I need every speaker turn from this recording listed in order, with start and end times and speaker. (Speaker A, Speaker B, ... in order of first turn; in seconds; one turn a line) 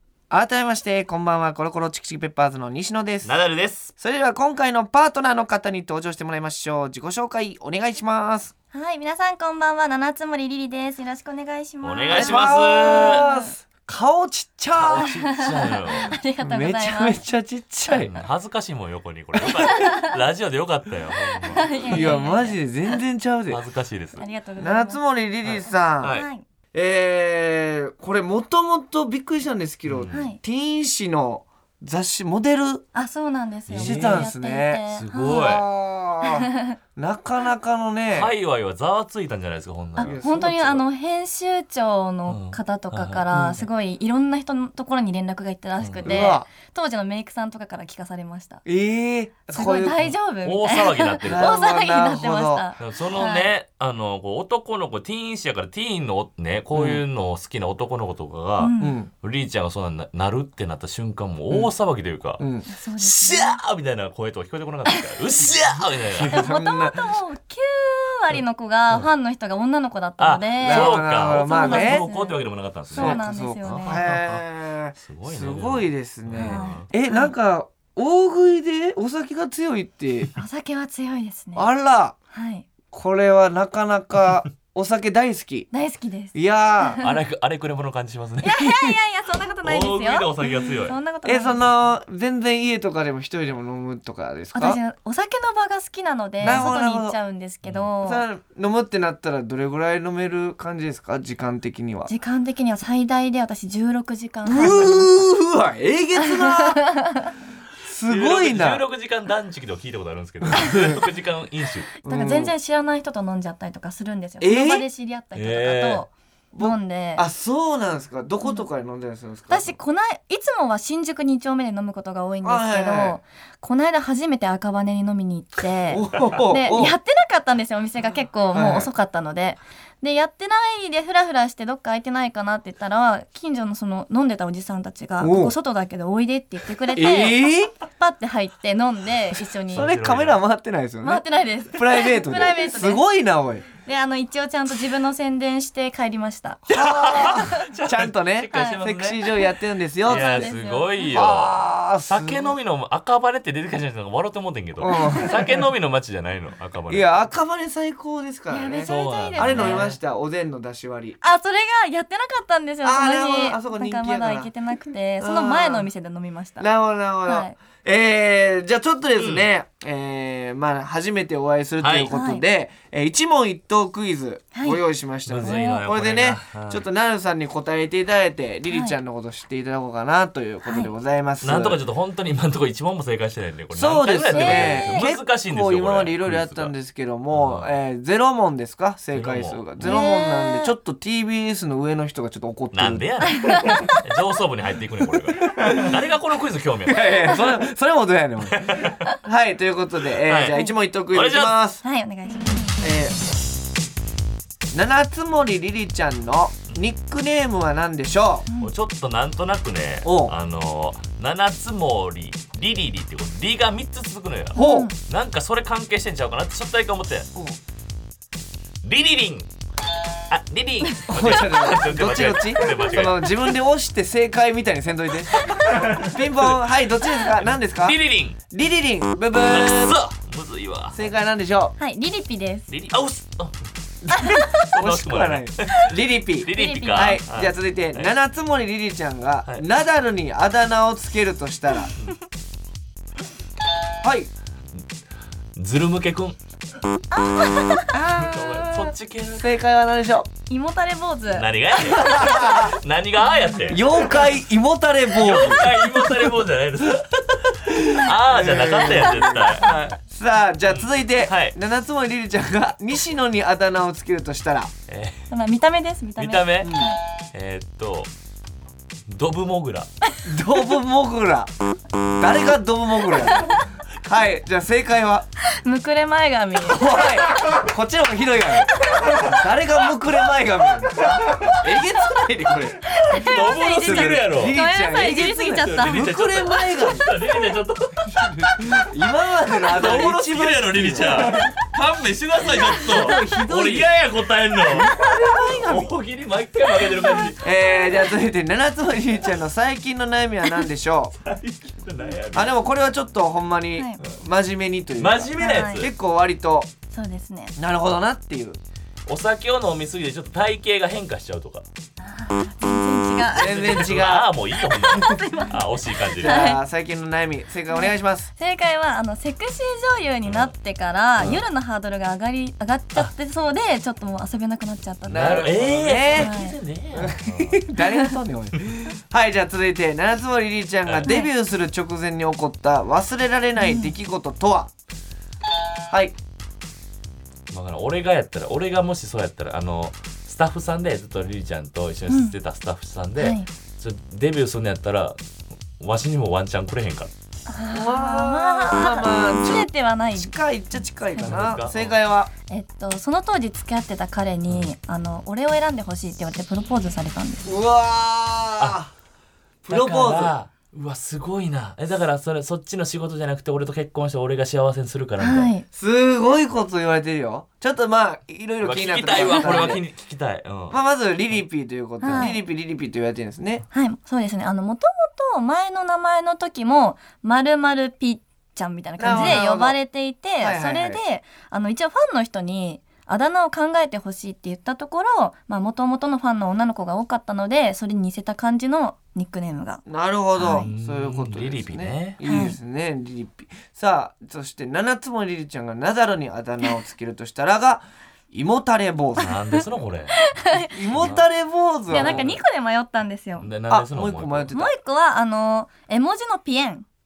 Speaker A: 0.3-3.3
Speaker B: 3.2-3.9
Speaker A: 4.0-8.5
Speaker C: 8.7-13.5
Speaker B: 11.8-13.2
Speaker A: 12.1-15.2
Speaker B: 14.8-16.2
Speaker C: 15.1-17.2
Speaker A: 16.4-18.1
Speaker C: 17.9-18.2
Speaker B: 18.0-22.1
Speaker C: 19.4-20.1
Speaker C: 21.5-22.6
Speaker A: 21.9-23.6
Speaker B: 23.5-24.3
Speaker C: 24.2-25.0
Speaker A: 24.6-26.2
Speaker B: 25.4-26.3
Speaker C: 26.1-26.4
Speaker A: 26.7-32.9
Speaker B: 29.9-30.2
Speaker C: 30.1-30.4
Speaker C: 32.9-35.6
Speaker B: 33.7-34.3
Speaker A: 33.8-38.3
Speaker B: 34.9-35.7
Speaker C: 36.2-36.8
Speaker B: 38.1-40.2
Speaker C: 40.0-48.6
Speaker A: 40.0-40.8
Speaker B: 42.3-43.2
Speaker A: 43.3-43.6
Speaker B: 45.8-46.3
Speaker A: 46.0-46.5
Speaker A: 48.6-50.1
Speaker C: 49.5-53.5
Speaker B: 50.4-51.6
Speaker A: 51.2-52.6
Speaker B: 52.8-62.4
Speaker A: 56.7-57.0
Speaker C: 58.6-59.0
Speaker A: 58.8-59.1
Speaker A: 62.4-62.7
Speaker C: 62.7-63.6
Speaker B: 63.0-66.4
Speaker A: 66.1-67.2
Speaker C: 66.3-72.4
Speaker B: 70.2-74.4
Speaker A: 70.6-72.1
Speaker C: 72.9-74.0
Speaker A: 72.9-80.3
Speaker B: 75.1-76.9
Speaker C: 76.4-77.3
Speaker C: 80.4-81.7
Speaker A: 81.5-82.2
Speaker C: 82.3-82.7
Speaker A: 82.9-85.7
Speaker C: 85.7-87.2
Speaker A: 86.3-87.0
Speaker B: 87.0-88.8
Speaker C: 88.4-91.6
Speaker B: 89.6-91.0
Speaker A: 91.2-94.8
Speaker C: 94.5-98.2
Speaker B: 96.4-96.7
Speaker A: 96.4-97.2
Speaker A: 98.0-102.1
Speaker C: 102.1-105.1
Speaker A: 104.5-106.8
Speaker C: 106.2-107.3
Speaker A: 107.8-108.8
Speaker B: 108.1-111.9
Speaker A: 110.6-111.0
Speaker C: 112.0-117.2
Speaker A: 112.0-112.5
Speaker A: 114.4-114.8
Speaker B: 115.3-116.0
Speaker A: 116.5-119.7
Speaker C: 119.5-139.9
Speaker A: 122.4-123.2
Speaker A: 125.9-127.0
Speaker A: 128.5-128.9
Speaker A: 135.2-135.5
Speaker A: 136.9-137.7
Speaker B: 139.7-140.4
Speaker A: 139.7-143.7
Speaker C: 141.0-143.0
Speaker C: 143.8-146.6
Speaker B: 146.7-149.5
Speaker A: 146.7-150.5
Speaker C: 148.5-148.8
Speaker B: 150.0-157.2
Speaker C: 150.1-151.2
Speaker A: 151.1-152.6
Speaker A: 154.8-155.6
Speaker A: 156.9-161.2
Speaker C: 158.5-159.9
Speaker B: 158.8-160.0
Speaker C: 161.2-166.7
Speaker A: 162.8-164.5
Speaker A: 165.2-165.9
Speaker A: 166.6-181.8
Speaker C: 167.3-167.6
Speaker B: 169.2-169.5
Speaker B: 171.8-172.1
Speaker C: 172.1-172.4
Speaker C: 174.5-174.8
Speaker B: 175.3-176.8
Speaker C: 175.4-175.8
Speaker C: 178.7-179.0
Speaker B: 181.4-186.8
Speaker A: 183.7-193.9
Speaker C: 184.3-185.1
Speaker B: 187.3-187.7
Speaker B: 189.1-190.0
Speaker C: 189.8-190.7
Speaker B: 192.7-197.2
Speaker C: 193.4-193.9
Speaker A: 195.4-196.0
Speaker A: 196.9-201.8
Speaker B: 198.5-199.0
Speaker B: 200.2-201.6
Speaker C: 201.8-202.8
Speaker A: 202.8-203.2
Speaker A: 204.7-208.5
Speaker B: 208.6-217.3
Speaker A: 210.0-210.3
Speaker A: 214.5-214.9
Speaker C: 214.6-214.9
Speaker B: 218.8-219.5
Speaker B: 220.3-223.5
Speaker A: 221.1-228.0
Speaker B: 225.5-226.1
Speaker B: 227.1-228.4
Speaker A: 228.5-230.0
Speaker B: 229.4-231.1
Speaker A: 230.9-231.8
Speaker C: 231.8-232.7
Speaker B: 232.7-233.6
Speaker A: 234.0-241.9
Speaker C: 234.1-234.5
Speaker B: 234.1-238.1
Speaker C: 236.5-237.2
Speaker A: 244.0-244.3
Speaker B: 245.6-246.4
Speaker C: 247.1-248.6
Speaker B: 248.1-249.5
Speaker A: 249.3-250.3
Speaker C: 250.5-252.3
Speaker B: 251.3-254.3
Speaker A: 251.8-252.8
Speaker C: 253.3-253.6
Speaker A: 253.7-255.8
Speaker B: 255.1-260.0
Speaker A: 258.1-264.7
Speaker B: 260.7-261.6
Speaker B: 264.9-265.3
Speaker C: 265.3-267.0
Speaker B: 266.2-266.8
Speaker A: 266.6-266.9
Speaker B: 267.3-268.1
Speaker B: 269.1-269.9
Speaker A: 270.2-271.5
Speaker A: 272.1-275.3
Speaker C: 275.5-277.0
Speaker A: 276.6-282.8
Speaker C: 282.9-286.1
Speaker B: 283.1-284.6
Speaker A: 283.8-287.1
Speaker B: 285.6-288.8
Speaker A: 288.1-291.5
Speaker B: 289.5-297.4
Speaker A: 292.6-293.9
Speaker A: 294.7-295.9
Speaker A: 297.4-301.1
Speaker B: 301.2-302.6
Speaker A: 302.3-306.7
Speaker B: 305.0-305.9
Speaker C: 305.4-305.9
Speaker C: 306.9-307.5
Speaker A: 307.6-308.6
Speaker B: 309.1-311.7
Speaker C: 312.0-313.7
Speaker A: 313.3-314.3
Speaker B: 313.4-316.5
Speaker C: 314.7-315.6
Speaker A: 316.2-318.3
Speaker C: 316.2-316.6
Speaker C: 317.7-326.6
Speaker B: 320.2-320.5
Speaker B: 321.2-321.4
Speaker A: 325.1-326.4
Speaker B: 325.1-327.6
Speaker A: 326.9-334.7
Speaker C: 327.8-328.1
Speaker B: 330.9-331.1
Speaker C: 331.1-331.3
Speaker C: 333.6-333.9
Speaker A: 335.9-336.1
Speaker B: 337.5-345.2
Speaker C: 343.2-343.5
Speaker B: 345.8-347.1
Speaker C: 347.5-350.3
Speaker A: 347.7-352.3
Speaker B: 351.2-352.0
Speaker C: 352.5-357.5
Speaker A: 357.4-358.9
Speaker A: 359.6-360.3
Speaker B: 359.7-365.5
Speaker C: 365.2-365.6
Speaker A: 365.7-369.8
Speaker B: 368.6-370.8
Speaker C: 369.2-369.5
Speaker A: 370.7-373.6
Speaker C: 372.0-372.4
Speaker C: 373.7-389.8
Speaker A: 379.0-379.8
Speaker A: 380.4-381.0
Speaker A: 389.9-399.3
Speaker C: 390.4-390.7
Speaker B: 390.4-392.4
Speaker C: 392.2-392.6
Speaker B: 399.2-400.2
Speaker C: 399.2-399.6
Speaker C: 400.1-400.8
Speaker A: 400.7-402.3
Speaker B: 400.9-401.3
Speaker B: 401.9-402.4
Speaker C: 401.9-403.5
Speaker B: 403.4-404.6
Speaker A: 403.7-404.7
Speaker C: 404.5-406.9